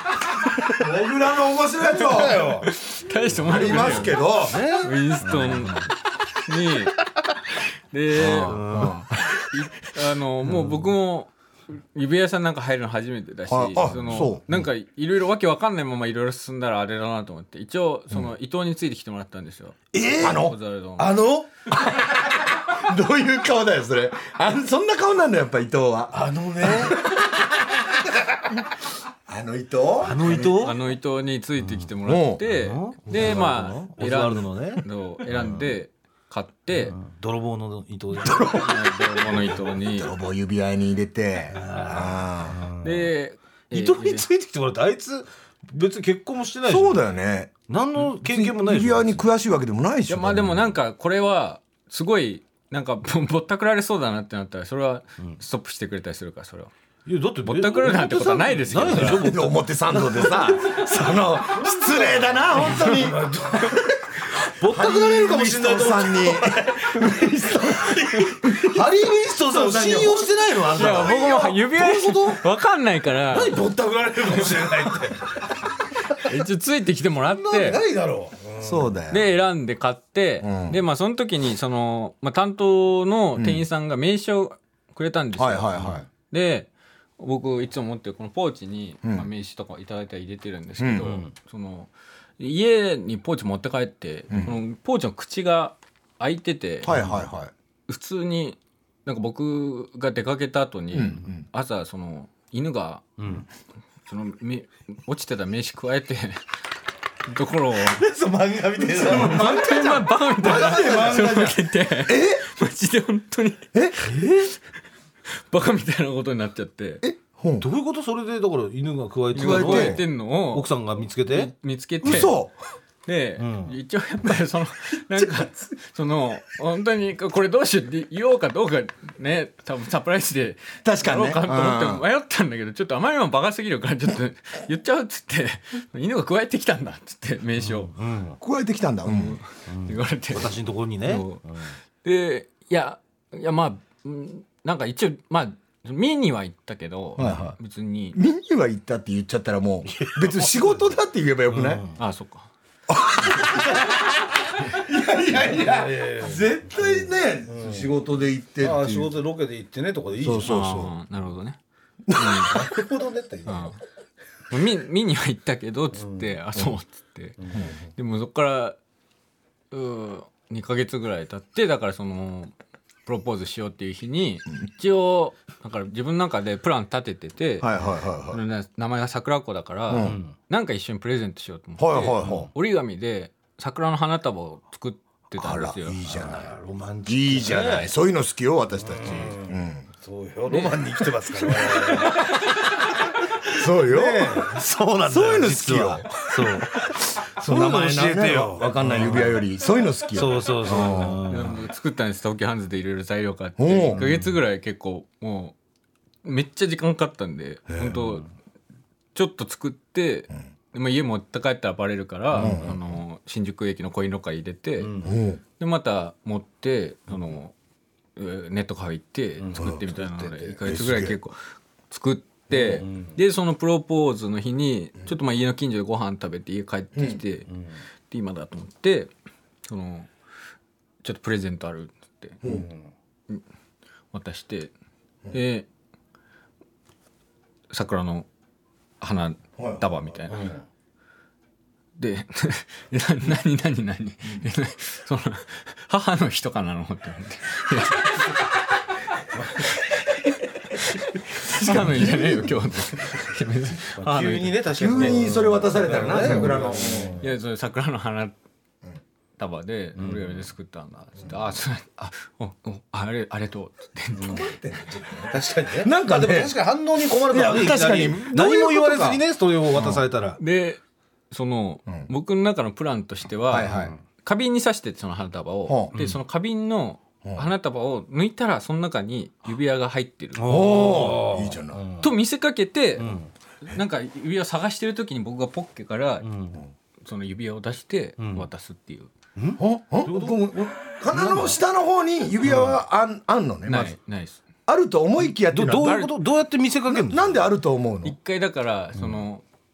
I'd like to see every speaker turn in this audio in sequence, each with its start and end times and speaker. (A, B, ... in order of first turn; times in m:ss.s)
0:00.4-0:00.7 A
0:00.7-0:02.6 B
0:01.8-0:02.7 A
0:02.6-0:05.9 C
0:03.4-0:04.6 B
0:03.7-0:05.8 A
0:06.4-0:07.0 C
0:07.9-0:08.8 C
0:08.2-0:09.1 B
0:08.3-0:09.0 A
0:09.4-0:21.2 C
0:13.5-0:14.4 B
0:19.9-0:20.4 A
0:20.2-0:20.6 B
0:21.0-0:21.5 A
0:21.7-0:28.0 B
0:26.1-0:27.0 A
0:29.3-0:30.5 B
0:30.0-0:30.8 A
0:30.3-0:37.0 C
0:31.6-0:31.9 A
0:32.0-0:32.4 B
0:32.4-0:35.7 A
0:36.8-0:39.4 A
0:38.2-0:42.6 B
0:38.5-0:40.1 C
0:41.5-0:43.1 A
0:42.8-0:44.3 C
0:43.7-0:47.0 A
0:46.6-0:47.6 B
0:47.7-0:49.2 A
0:48.2-0:50.7 B
0:50.1-0:56.7 C
0:57.0-1:12.4 A
0:57.4-0:59.4 C
0:59.2-1:03.3 B
1:04.6-1:08.8 B
1:08.1-1:08.7 C
1:09.4-1:11.2 B
1:10.8-1:13.6 C
1:13.3-1:15.4 A
1:16.1-1:17.8 C
1:17.3-1:18.9 A
1:18.6-1:19.3 B
1:19.1-1:36.9 C
1:20.4-1:20.8 B
1:23.4-1:23.6 B
1:25.4-1:26.1 B
1:30.8-1:31.1 B
1:31.0-1:31.3 A
1:34.3-1:34.6 B
1:36.8-1:37.5 B
1:36.9-1:37.2 A
1:37.9-1:43.1 C
1:40.9-1:41.4 B
1:43.2-1:43.4 A
1:44.1-1:46.4 C
1:47.3-1:48.0 C
1:47.8-1:49.5 A
1:48.8-1:52.4 B
1:49.1-1:54.3 C
1:54.0-1:54.5 A
1:55.3-1:57.0 C
1:57.0-1:57.6 B
1:57.6-2:01.5 A
1:59.3-2:00.7 C
1:59.3-2:00.0 B
2:01.3-2:02.3 C
2:02.0-2:02.6 B
2:03.0-2:17.9 C
2:03.4-2:03.8 A
2:05.2-2:05.5 B
2:10.8-2:12.0 B
2:17.6-2:18.4 A
2:18.4-2:19.4 B
2:19.0-2:21.4 C
2:19.7-2:21.8 A
2:22.0-2:28.2 C
2:27.2-2:27.6 B
2:28.1-2:31.8 B
2:29.9-2:30.8 A
2:31.5-2:32.0 A
2:32.0-2:32.5 C
2:32.9-2:39.1 B
2:35.4-2:37.9 A
2:38.6-2:40.5 A
2:40.2-2:40.9 B
2:40.4-2:41.6 C
2:42.1-2:42.7 B
2:42.1-2:42.6 C
2:42.5-2:43.7 A
2:43.5-2:43.8 C
2:44.5-2:47.4 C
2:45.9-2:46.3 A
2:47.4-2:47.7 A
2:48.0-2:48.8 C
2:49.7-2:52.5 C
2:53.0-2:57.7 C
2:57.6-2:58.4 B
2:58.3-3:06.2 C
2:59.9-3:00.2 B
3:00.0-3:00.3 A
3:01.8-3:02.5 B
3:05.4-3:06.5 B
3:05.8-3:07.9 A
3:07.0-3:09.8 B
3:08.8-3:19.4 A
3:10.5-3:12.5 C
3:13.5-3:14.5 B
3:15.1-3:21.5 B
3:20.1-3:21.6 A
3:21.3-3:25.6 C
3:23.6-3:24.1 B
3:23.9-3:24.2 A
3:26.2-3:28.3 C
3:29.1-3:34.9 C
3:32.3-3:32.8 B
3:32.3-3:32.8 A
3:34.8-3:35.2 A
3:35.0-3:35.4 B
3:35.6-3:37.5 C
3:38.2-3:41.4 C
3:39.4-3:40.3 A
3:39.5-3:39.8 B
3:40.6-3:41.2 B
3:41.9-3:47.5 C
3:42.5-3:43.2 A
3:46.9-3:47.2 B
3:47.5-3:47.8 A
3:48.1-3:49.1 C
3:49.7-3:50.1 C
3:51.0-3:52.4 C
3:52.4-3:52.9 A
3:54.1-3:54.7 C
3:55.3-3:55.6 C
3:57.7-3:58.3 C
3:59.0-4:00.4 C
3:59.6-3:59.9 B
4:00.3-4:00.6 A
4:02.0-4:08.3 C
4:11.4-4:15.2 C
4:11.5-4:12.7 B
4:14.0-4:17.2 A
4:14.7-4:17.2 B
4:15.9-4:16.4 C
4:17.2-4:18.3 C
4:19.4-4:24.5 C
4:20.0-4:20.4 A
4:24.2-4:24.4 A
4:24.2-4:29.2 B
4:25.3-4:30.4 A
4:29.8-4:30.8 C
4:31.3-4:41.0 C
4:33.5-4:33.9 B
4:33.6-4:34.0 A
4:35.7-4:35.9 B
4:35.9-4:36.2 A
4:40.3-4:42.1 A
4:40.5-4:41.8 B
4:42.0-4:46.3 C
4:43.0-4:43.3 A
4:46.2-4:46.7 A
4:47.0-4:49.1 C
4:48.2-4:48.4 A
4:49.4-4:50.4 A
4:49.6-4:53.9 B
4:51.1-4:51.6 A
4:52.4-4:52.8 A
4:53.7-4:54.4 C
4:54.7-4:56.0 B
4:55.5-4:57.4 A
4:55.7-4:56.1 C
4:56.9-4:58.2 B
4:58.0-4:59.4 C
4:59.0-4:59.2 A